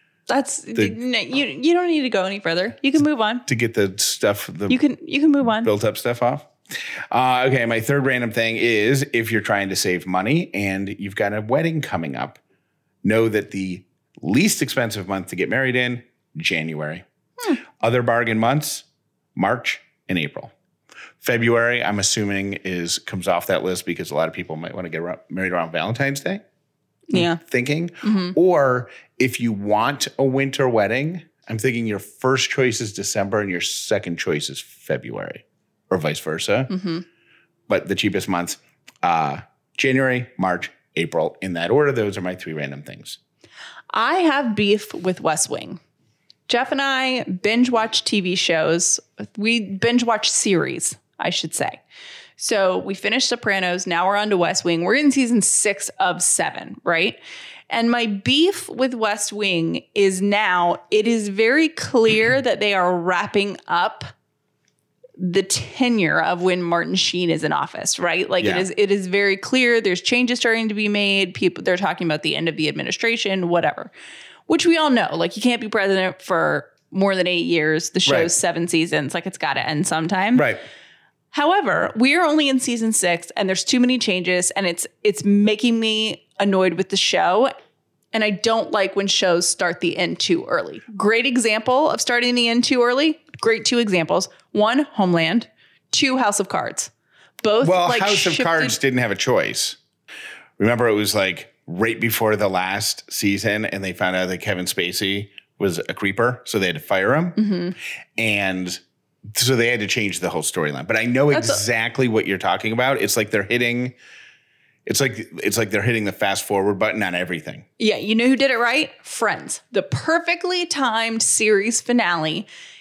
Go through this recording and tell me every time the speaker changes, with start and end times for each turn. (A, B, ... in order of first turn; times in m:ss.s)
0:00.3-0:03.4 A
0:03.4-0:04.8 B
0:04.7-0:05.7 A
0:05.6-0:12.4 B
0:13.0-0:17.0 B
0:17.8-0:20.5 B
0:21.2-0:26.4 B
0:27.1-0:27.4 A
0:27.1-0:36.7 B
0:28.0-0:28.4 A
0:36.7-0:37.0 A
0:37.7-0:43.2 B
0:43.9-0:45.8 A
0:46.5-0:51.8 A
0:52.4-0:57.2 A
0:57.7-1:04.1 A
1:05.2-1:13.9 A
1:08.4-1:08.7 B
1:14.5-1:20.5 A
1:20.3-1:20.6 B
1:21.3-1:27.5 A
1:28.1-1:38.8 A
1:37.6-1:39.8 B
1:40.6-1:47.4 B
1:47.4-1:47.7 A
1:48.2-1:54.0 B
1:51.3-1:51.6 A
1:54.8-1:57.6 B
1:57.8-2:02.5 A